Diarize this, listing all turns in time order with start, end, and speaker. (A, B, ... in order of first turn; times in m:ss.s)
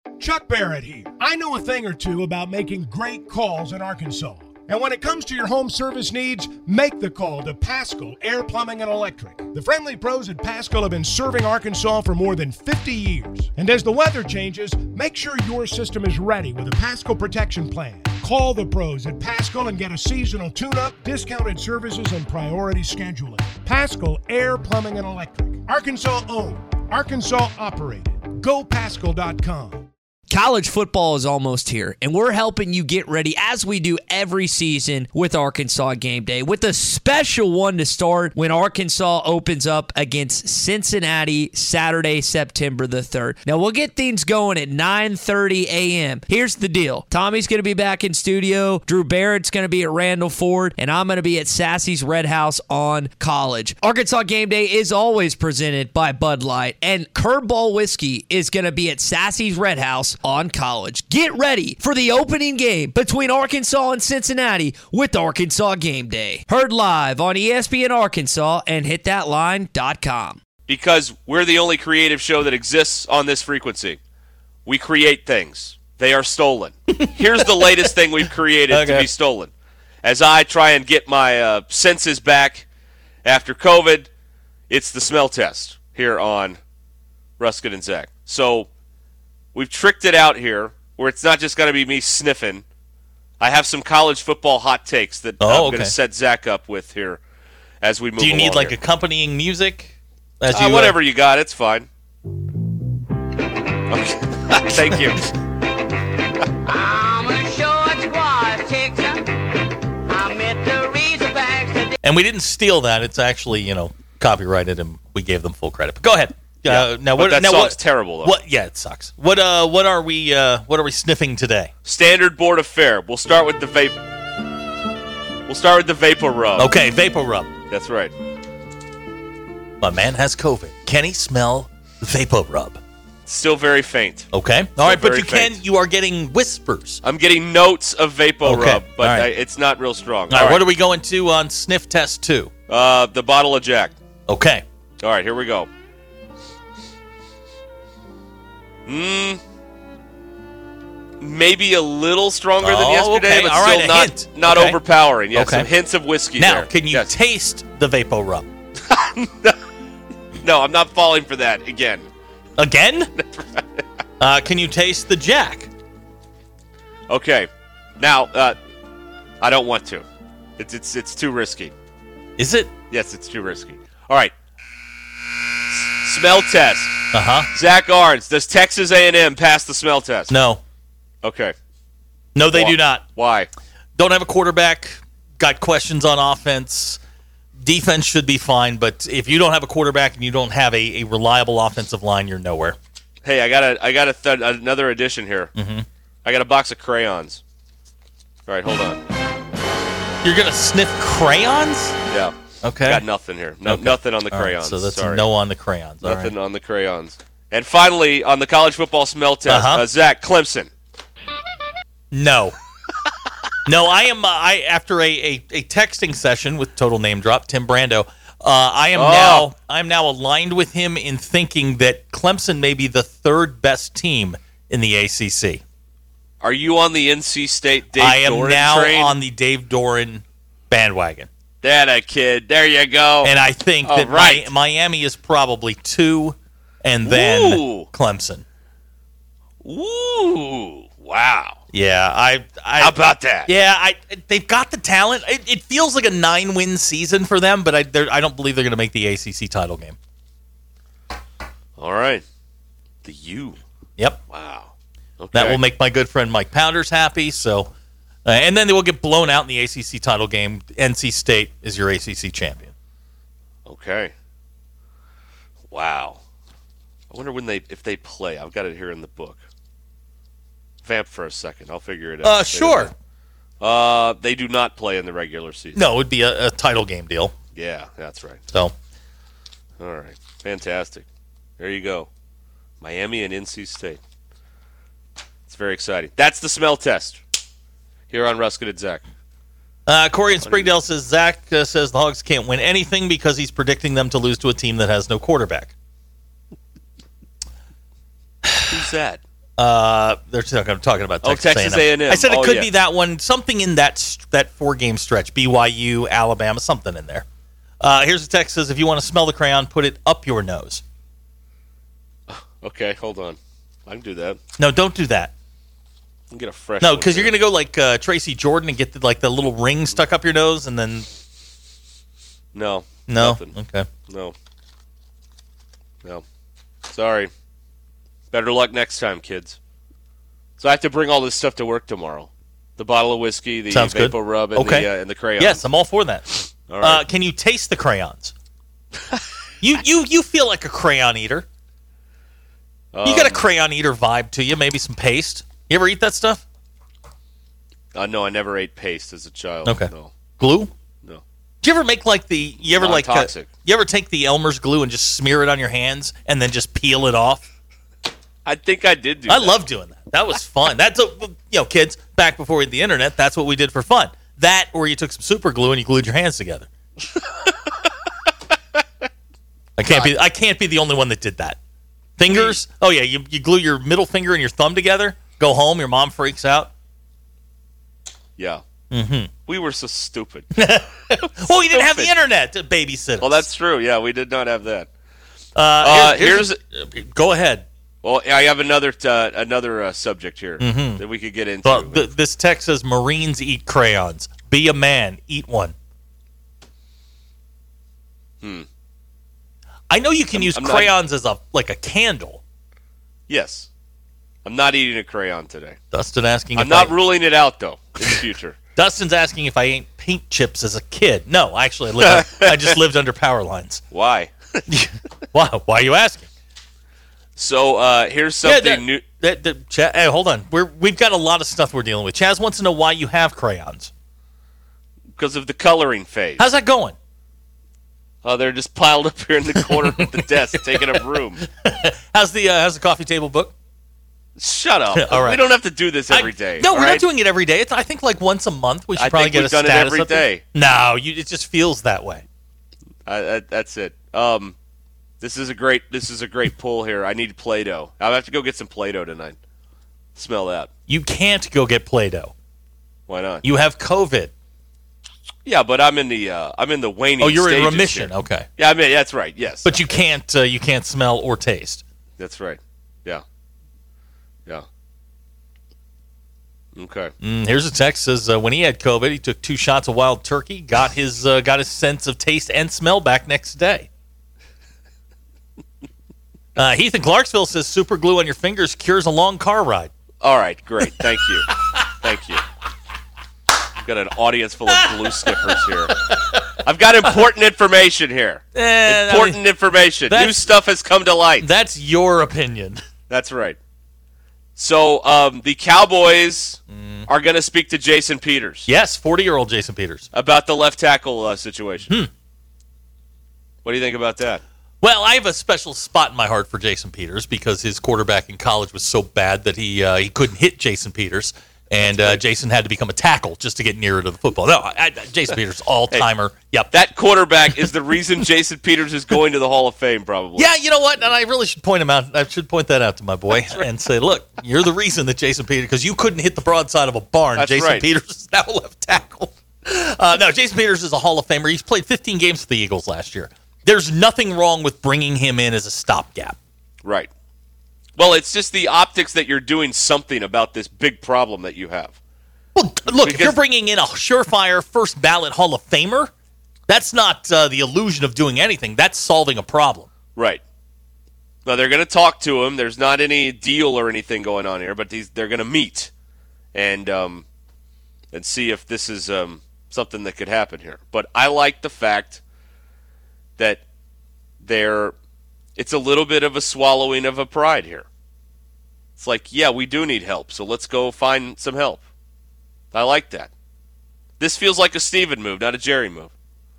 0:00.2-0:29.9 A
0:30.3-1:10.4 B
1:10.7-1:14.0 C
1:14.6-1:19.5 C
1:16.9-1:17.9 D
1:18.7-1:19.1 D
1:20.0-1:22.6 C
1:23.2-1:24.1 C
1:24.7-1:26.6 C
1:27.4-1:28.7 C
1:29.5-1:32.6 C
1:33.4-1:37.2 C
1:35.4-1:35.9 D
1:37.8-1:38.8 C
1:38.2-1:41.0 D
1:40.5-1:41.9 C
1:43.9-1:45.2 C
1:46.6-1:49.3 E
1:50.1-1:52.0 E
1:52.0-2:01.7 D
1:56.6-1:58.3 C
2:01.8-2:04.0 C
2:05.5-2:06.7 C
2:06.6-2:07.5 D
2:07.7-2:08.1 C
2:09.8-2:12.8 D
2:13.2-2:15.6 C
2:14.3-2:17.0 D
2:17.0-2:20.6 C
2:18.4-2:19.3 D
2:20.3-2:22.5 D
2:22.7-2:24.0 C
2:24.3-2:24.6 D
2:25.0-2:25.7 C
2:28.8-2:29.4 C
2:31.2-2:37.1 C
2:32.6-2:35.7 D
2:36.4-2:38.5 D
2:38.9-2:39.6 C
2:40.4-2:42.1 C
2:42.6-2:43.1 D
2:43.2-2:43.6 C
2:44.2-2:45.7 D
2:47.1-2:48.6 C
2:49.4-2:50.0 C
2:50.6-2:51.7 C
2:52.4-2:52.7 D
2:52.9-2:54.3 C
2:55.8-3:00.3 C
2:57.1-2:57.5 D
3:00.3-3:00.6 D
3:01.2-3:01.5 C
3:02.3-3:03.0 D
3:02.5-3:03.5 C
3:04.0-3:07.0 D
3:07.6-3:12.8 D
3:13.2-3:15.5 C
3:15.5-3:15.8 D
3:16.2-3:17.4 C
3:18.5-3:19.0 C
3:20.2-3:22.0 D
3:22.1-3:25.2 C
3:22.6-3:23.0 D
3:23.6-3:26.3 D
3:26.0-3:30.7 C
3:29.5-3:29.8 D
3:32.1-3:32.5 D
3:33.6-3:45.6 D
3:38.9-3:39.5 C
3:46.4-3:49.1 C
3:47.9-3:51.3 D
3:51.6-3:53.3 C
3:53.2-3:58.4 D
3:53.8-3:54.5 C
3:57.0-3:57.9 C
3:59.6-4:01.6 C
4:01.7-4:02.9 D
4:02.8-4:03.5 C
4:03.4-4:10.0 D
4:11.8-4:12.2 C
4:13.0-4:13.6 C
4:14.3-4:15.6 C
4:15.3-4:17.7 D
4:18.2-4:22.7 D
4:23.6-4:24.1 C
4:25.7-4:26.2 C
4:27.1-4:29.4 C
4:30.8-4:32.9 C
4:32.2-4:32.9 D
4:33.6-4:35.8 C
4:35.7-4:37.3 D
4:37.5-4:38.4 C
4:39.8-4:41.0 C
4:41.6-4:42.1 C
4:42.8-4:44.0 C
4:45.5-4:47.2 C
4:48.1-4:49.0 C
4:49.8-4:55.7 D
4:50.4-4:50.7 C
4:58.4-4:58.7 D
4:58.7-4:59.2 C
4:59.6-5:07.2 D
5:01.2-5:02.7 C
5:07.8-5:10.8 D
5:12.3-5:14.4 C
5:14.6-5:15.3 D
5:16.3-5:17.3 C
5:16.8-5:21.1 D
5:22.5-5:23.5 C
5:23.1-5:23.9 D
5:24.1-5:24.3 C
5:26.9-5:27.3 C
5:28.3-5:29.6 C
5:30.6-5:35.6 C
5:33.7-5:38.3 D
5:36.7-5:37.0 C
5:39.6-5:41.4 D
5:42.9-5:43.4 C
5:43.0-5:46.4 D
5:47.9-5:50.1 C
5:49.6-5:50.7 D
5:51.6-5:57.4 D
5:52.7-5:53.5 C
5:58.4-5:59.6 C
5:59.3-6:06.7 D
6:09.8-6:11.6 D
6:12.2-6:16.7 D
6:12.3-6:12.6 C
6:18.4-6:18.6 C
6:18.9-6:19.3 D
6:19.5-6:20.5 C
6:20.5-6:23.5 D
6:21.2-6:22.1 C
6:23.2-6:24.9 C
6:25.5-6:27.6 D
6:25.8-6:26.6 C
6:28.0-6:32.1 C
6:30.6-6:31.0 D
6:31.6-6:35.7 D
6:39.9-6:42.4 D
6:40.3-6:40.9 C
6:43.3-6:43.7 C
6:44.4-6:45.8 C
6:45.9-6:47.0 D
6:46.6-6:48.6 C
6:48.8-6:53.8 D
6:52.0-6:52.6 C
6:53.9-6:54.6 C
6:54.7-6:56.3 D
6:57.4-6:59.0 C
6:58.4-7:03.9 D
7:05.2-7:06.4 C
7:06.4-7:07.0 D
7:08.2-7:11.4 C
7:09.6-7:13.5 D
7:14.4-7:17.0 C
7:14.9-7:15.4 D
7:16.1-7:22.2 D
7:19.0-7:20.4 C
7:23.0-7:24.6 C
7:25.2-7:29.4 C
7:30.2-7:30.7 C
7:30.9-7:32.3 D
7:33.1-7:33.4 C
7:33.4-7:34.3 D
7:35.4-7:39.9 C
7:37.2-7:38.5 D
7:39.6-7:41.8 D
7:42.2-7:43.2 C
7:46.8-7:47.1 C
7:47.2-7:53.9 D
7:56.6-7:59.9 D
8:00.2-8:02.4 C
8:03.8-8:05.9 C
8:04.7-8:06.4 D
8:06.6-8:11.5 C
8:08.5-8:09.4 D
8:10.1-8:10.5 D
8:11.4-8:12.8 D
8:13.1-8:13.6 C
8:14.6-8:18.7 C
8:16.7-8:17.1 D
8:18.7-8:20.1 D
8:20.1-8:21.9 C
8:23.6-8:24.4 C
8:24.8-8:36.7 D
8:31.9-8:32.2 C
8:36.7-8:40.5 C
8:40.4-8:56.4 D
8:43.4-8:43.6 C
8:47.4-8:47.8 C
8:56.8-8:57.1 C
8:58.0-9:02.0 C
9:02.5-9:06.1 D
9:02.9-9:03.4 C
9:06.7-9:09.9 D
9:10.1-9:10.4 C
9:11.4-9:15.9 C
9:16.5-9:17.2 C
9:18.1-9:22.2 C
9:24.4-9:24.9 C
9:25.6-9:27.8 C
9:29.0-9:31.8 C
9:32.7-9:33.3 C
9:34.2-9:36.1 C